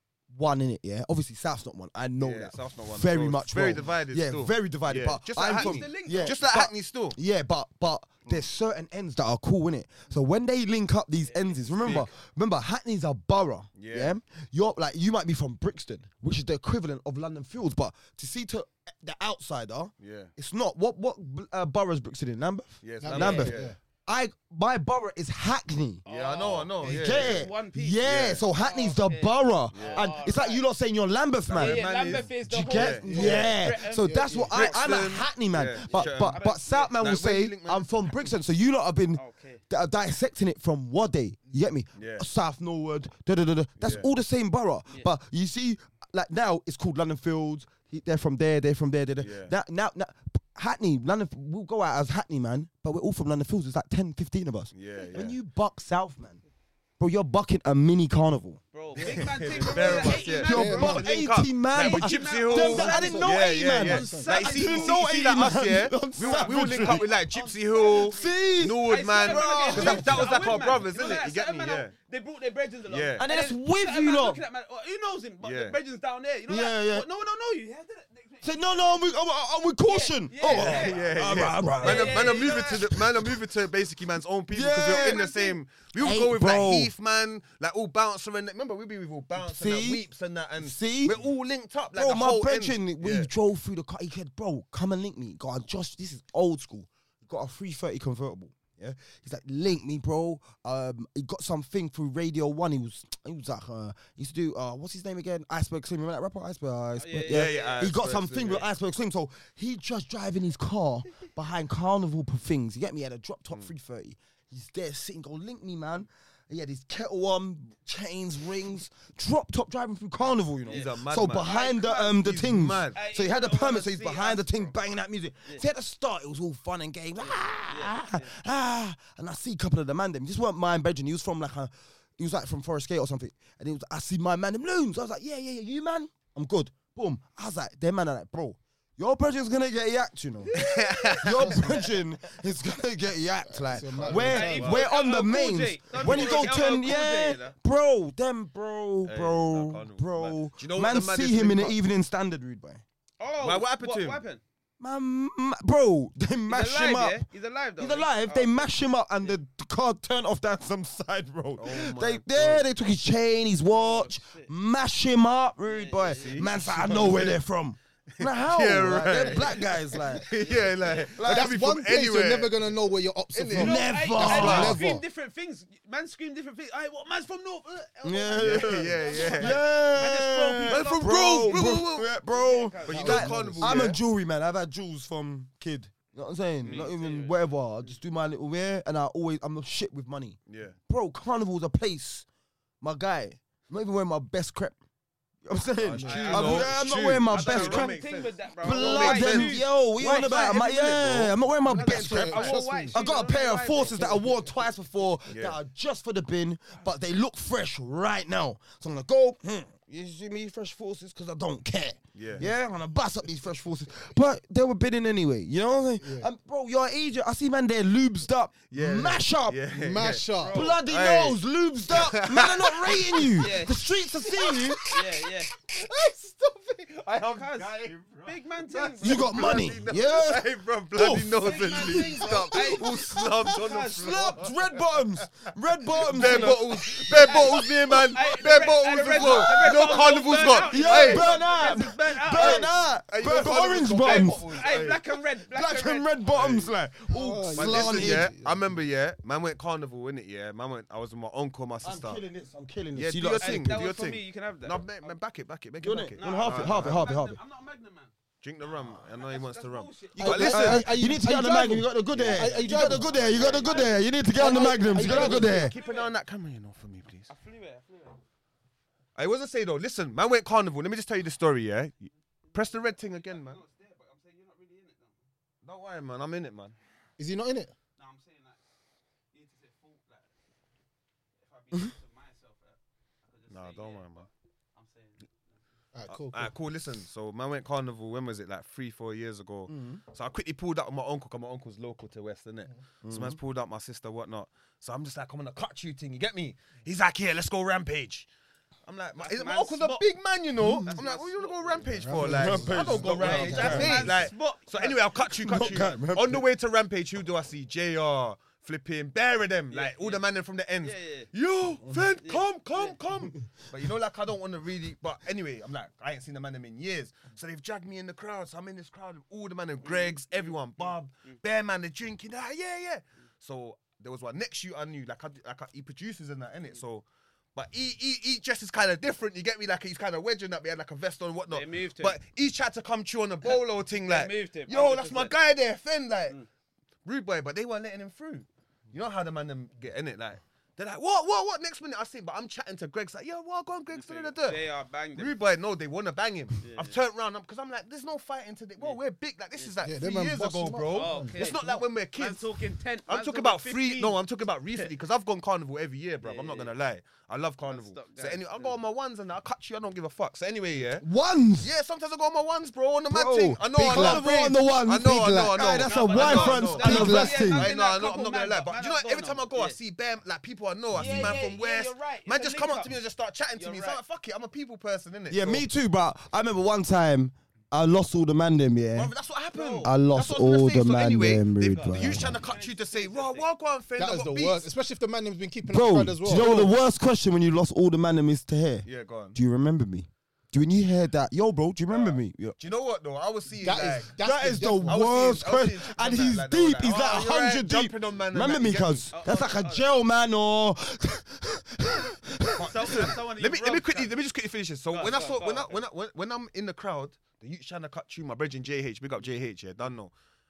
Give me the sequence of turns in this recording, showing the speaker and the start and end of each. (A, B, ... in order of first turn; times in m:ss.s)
0:00.3-0:26.0 A
0:02.2-0:07.2 B
0:05.5-0:06.4 C
0:11.3-0:12.0 C
0:11.8-0:12.1 B
0:13.8-0:14.1 B
0:20.0-0:20.3 B
0:22.8-0:23.7 B
0:23.0-0:23.8 D
0:26.0-0:30.6 C
0:26.1-0:27.5 B
0:26.8-0:27.2 D
0:26.9-0:56.4 A
0:28.0-0:28.4 B
0:29.7-0:30.0 B
0:31.5-0:33.6 B
0:31.5-0:34.5 C
0:33.1-0:34.7 D
0:34.5-0:36.4 B
0:35.9-0:37.0 C
0:37.0-0:37.9 B
0:39.2-0:39.6 C
0:42.0-0:42.3 B
0:43.8-0:44.1 B
0:49.2-0:49.5 B
0:54.7-0:55.4 B
0:57.0-1:07.0 A
0:58.7-1:19.2 C
0:59.0-1:11.9 B
1:00.5-1:00.9 D
1:02.9-1:04.3 D
1:07.9-1:10.4 A
1:12.9-1:13.2 B
1:13.2-1:14.4 A
1:15.4-1:15.8 B
1:16.5-1:17.1 A
1:18.4-1:23.4 A
1:19.9-1:21.0 C
1:20.5-1:33.3 B
1:21.8-1:22.8 C
1:24.5-1:25.2 A
1:24.9-1:25.6 C
1:26.0-1:26.9 A
1:29.4-1:30.0 A
1:30.6-1:31.2 A
1:32.0-2:20.6 A
1:47.0-1:47.8 C
1:47.3-1:48.6 B
2:00.7-2:03.0 B
2:00.7-2:02.2 C
2:02.9-2:04.7 C
2:07.2-2:08.3 C
2:20.5-2:21.6 C
2:20.6-2:21.5 B
2:21.2-2:32.8 A
2:21.4-2:21.7 D
2:23.5-2:24.8 D
2:24.0-2:24.9 B
2:24.3-2:27.5 C
2:26.0-2:26.9 B
2:29.1-2:31.8 B
2:33.2-2:34.4 C
2:33.4-2:34.2 B
2:34.8-2:37.2 A
2:36.5-2:38.7 C
2:37.8-2:50.3 A
2:41.6-2:42.6 B
2:43.7-2:44.5 C
2:45.7-2:46.4 C
2:46.2-2:47.4 B
2:48.2-2:49.6 B
2:49.1-2:49.6 C
2:50.2-2:52.7 B
2:50.2-2:51.1 C
2:51.2-2:51.5 A
2:51.3-2:53.8 D
2:53.3-2:53.7 B
2:53.6-2:54.8 A
2:53.6-3:03.1 C
2:54.2-2:54.8 B
2:54.3-2:55.0 D
2:58.0-3:12.3 A
2:58.3-2:59.6 B
3:00.7-3:02.1 B
3:02.8-3:04.0 B
3:02.9-3:03.8 D
3:06.6-3:06.9 B
3:06.6-3:07.9 C
3:10.5-3:10.8 B
3:12.8-3:14.8 A
3:15.4-3:18.0 A
3:15.8-3:21.4 B
3:16.0-3:16.6 D
3:16.1-3:20.5 C
3:18.6-3:39.6 A
3:21.7-3:23.0 D
3:21.7-3:24.2 C
3:24.0-3:24.3 D
3:25.3-3:25.6 B
3:32.2-3:32.4 B
3:36.0-3:36.3 D
3:38.7-3:41.4 B
3:39.8-3:40.6 D
3:40.5-3:45.1 A
3:41.9-3:43.4 B
3:43.4-3:43.8 C
3:44.9-3:45.5 C
3:45.7-3:54.6 B
3:47.3-3:47.7 C
3:48.2-3:49.6 C
3:49.0-4:04.6 A
3:51.4-3:52.9 C
3:53.5-3:54.4 C
3:56.0-4:05.0 B
3:56.1-3:56.6 C
3:58.2-4:02.7 C
4:04.0-4:06.1 C
4:05.5-4:08.3 A
4:06.3-4:06.7 B
4:07.1-4:08.7 D
4:07.5-4:12.2 B
4:11.8-4:13.8 A
4:13.0-4:17.0 B
4:13.4-4:15.1 C
4:15.8-4:17.4 A
4:16.2-4:18.1 C
4:18.4-4:20.9 B
4:19.2-4:20.3 C
4:20.2-4:25.7 A
4:20.2-4:23.1 D
4:22.1-4:23.9 B
4:23.6-4:26.1 C
4:24.3-4:25.7 D
4:25.0-4:27.3 B
4:27.3-4:28.2 C
4:29.2-4:33.6 B
4:32.5-4:35.2 C
4:35.6-4:36.8 B
4:37.2-4:37.7 D
4:38.0-4:38.6 C
4:39.3-4:40.3 C
4:41.4-4:45.6 C
4:43.5-4:44.3 B
4:45.9-4:46.5 D
4:46.1-4:58.3 B
4:49.7-4:50.0 A
4:53.0-4:53.4 A
4:58.9-5:36.4 B
4:59.2-5:00.0 C
5:00.6-5:00.9 A
5:00.9-5:01.9 C
5:02.0-5:04.0 D
5:02.2-5:04.2 A
5:03.1-5:06.0 C
5:05.4-5:06.5 A
5:09.7-5:10.2 C
5:10.8-5:11.3 C
5:12.2-5:13.0 C
5:19.8-5:21.4 C
5:31.5-5:32.2 C
5:33.4-5:35.4 C
5:37.0-5:44.6 B
5:43.9-5:45.3 C
5:45.2-5:52.5 B
5:46.6-5:47.0 C
5:49.8-5:51.8 D
5:50.9-5:54.2 C
5:53.1-6:01.0 B
5:56.2-5:56.7 C
5:57.7-5:58.8 C
6:01.0-6:01.7 A
6:01.6-6:15.6 B
6:03.1-6:07.7 A
6:03.7-6:05.8 D
6:05.8-6:09.8 C
6:06.8-6:07.6 D
6:11.0-6:12.9 C
6:11.0-6:11.3 A
6:13.6-6:14.0 C
6:15.3-6:19.1 A
6:19.0-6:24.7 B
6:19.5-6:19.9 C
6:19.8-6:22.4 A
6:21.6-6:23.5 C
6:24.0-6:26.5 D
6:25.7-6:32.6 A
6:26.3-6:26.6 B
6:28.8-6:29.4 B
6:31.9-6:34.1 B
6:33.6-6:35.0 D
6:34.2-6:43.1 A
6:34.9-6:39.1 B
6:39.1-6:39.9 C
6:42.6-6:44.2 C
6:42.6-6:50.1 B
6:44.9-6:45.8 C